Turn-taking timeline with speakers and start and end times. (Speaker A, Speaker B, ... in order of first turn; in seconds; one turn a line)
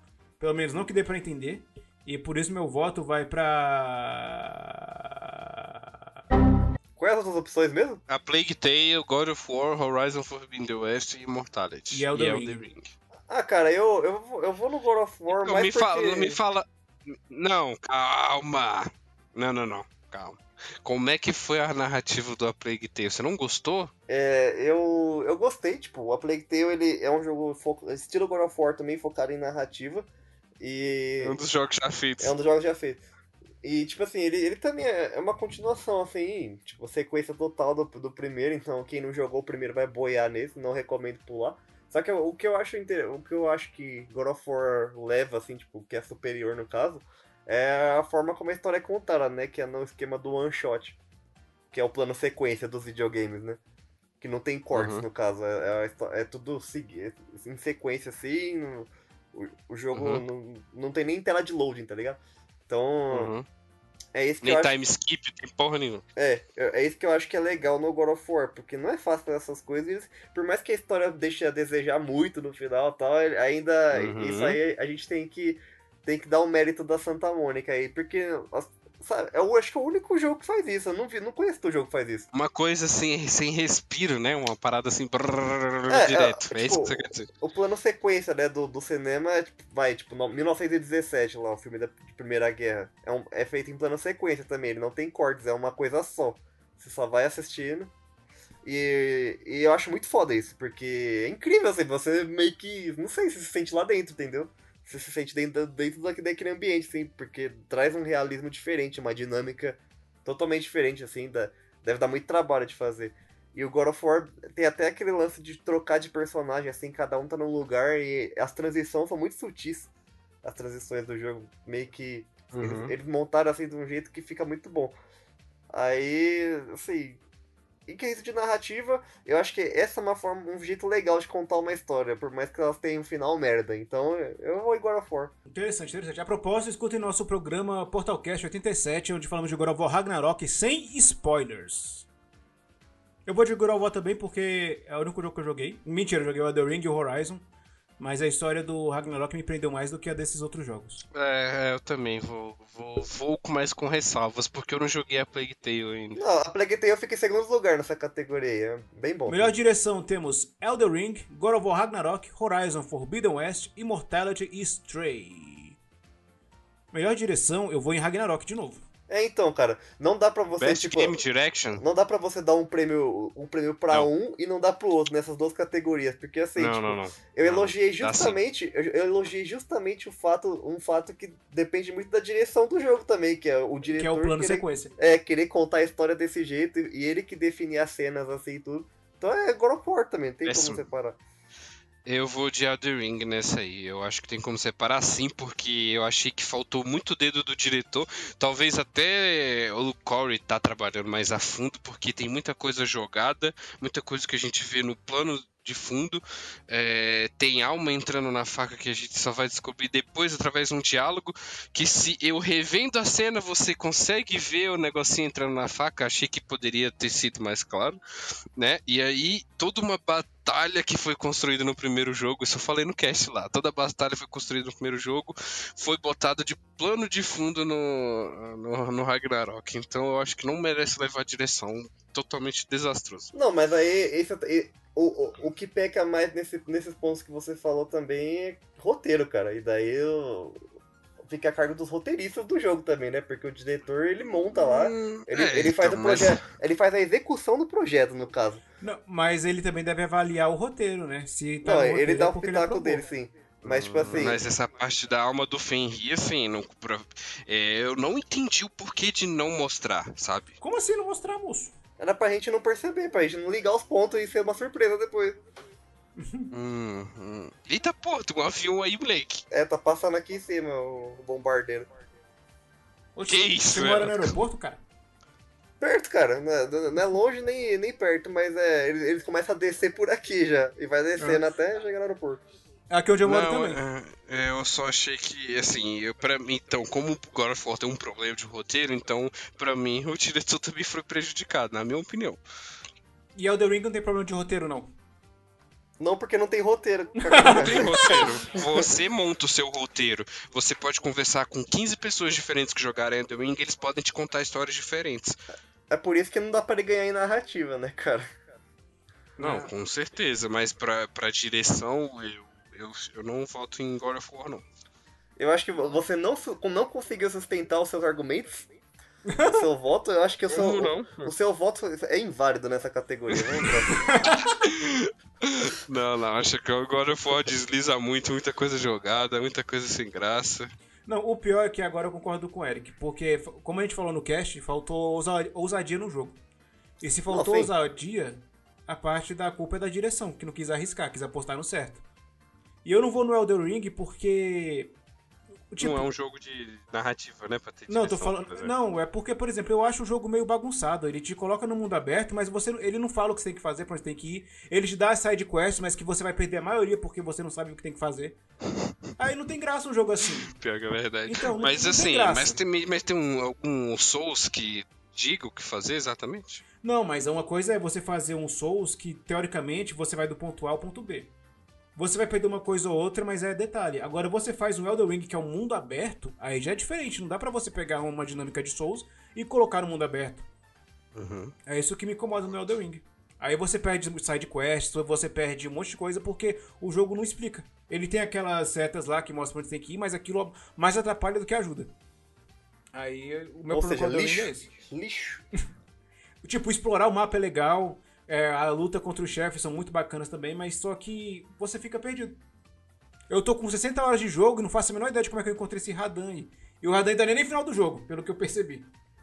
Speaker A: 0.4-5.9
Speaker B: 7.0-8.0
Speaker C: 8.1-12.9
Speaker A: 11.9-12.6
Speaker B: 13.3-16.4
Speaker C: 15.3-23.9
Speaker B: 24.1-30.1
Speaker B: 30.6-31.4
Speaker C: 31.2-32.3
Speaker B: 32.2-33.0
Speaker B: 33.6-51.0
Speaker B: 51.7-53.6
Speaker B: 54.2-63.3
Speaker C: 54.7-55.0
Speaker C: 59.9-60.2
Speaker C: 63.1-63.5
Speaker B: 64.1-64.7
Speaker C: 64.4-66.0
Speaker B: 66.2-82.3
Speaker C: 73.9-74.6
Speaker C: 82.3-87.3
Speaker B: 85.9-97.9
Speaker B: 98.6-119.9
Speaker B: 120.4-125.0
Speaker C: 122.5-122.9
Speaker B: 125.7-127.2
Speaker B: 127.9-135.3
Speaker A: 135.5-142.1
Speaker A: 143.2-147.4
Speaker A: 148.0-151.0
Speaker C: 151.1-156.2
Speaker B: 156.2-159.5
Speaker A: 159.2-165.8
Speaker A: 166.9-168.8
Speaker B: 169.1-171.2
Speaker C: 170.6-171.8
Speaker B: 171.7-191.2
Speaker C: 176.6-178.4
Speaker A: 183.9-184.9
Speaker C: 190.4-190.8
Speaker C: 192.0-218.0
Speaker C: 218.6-233.3
Speaker B: 233.3-240.6
Speaker B: 241.2-248.6
Speaker C: 244.6-246.4
Speaker A: 248.8-253.0
Speaker B: 251.6-254.4
Speaker C: 253.6-260.5
Speaker A: 260.6-261.8
Speaker B: 262.0-265.4
Speaker A: 266.2-266.5
Speaker C: 266.5-269.4
Speaker B: 269.5-271.9
Speaker A: 273.1-274.8
Speaker C: 273.3-274.3
Speaker B: 275.8-282.4
Speaker A: 281.2-281.4
Speaker A: 282.9-283.8
Speaker C: 283.2-292.4
Speaker A: 293.3-294.9
Speaker B: 296.0-298.8
Speaker A: 297.2-298.2
Speaker C: 297.4-305.4
Speaker B: 305.9-308.3
Speaker C: 309.4-314.6
Speaker A: 309.4-309.7
Speaker B: 315.4-318.7
Speaker A: 319.3-319.6
Speaker B: 319.4-324.1
Speaker C: 320.5-321.3
Speaker A: 324.0-324.6
Speaker C: 324.6-330.7
Speaker A: 331.1-336.4
Speaker A: 337.0-342.0
Speaker B: 337.3-337.7
Speaker A: 342.8-344.9
Speaker A: 345.7-346.1
Speaker C: 345.8-348.7
Speaker A: 347.9-358.4
Speaker A: 359.2-360.5
Speaker C: 360.5-366.6
Speaker A: 361.2-362.6
Speaker A: 366.8-371.3
Speaker A: 371.9-380.5
Speaker C: 381.1-381.5
Speaker A: 381.7-391.9
Speaker A: 392.9-394.7
Speaker B: 393.7-395.4
Speaker A: 396.4-402.4
Speaker A: 403.3-408.9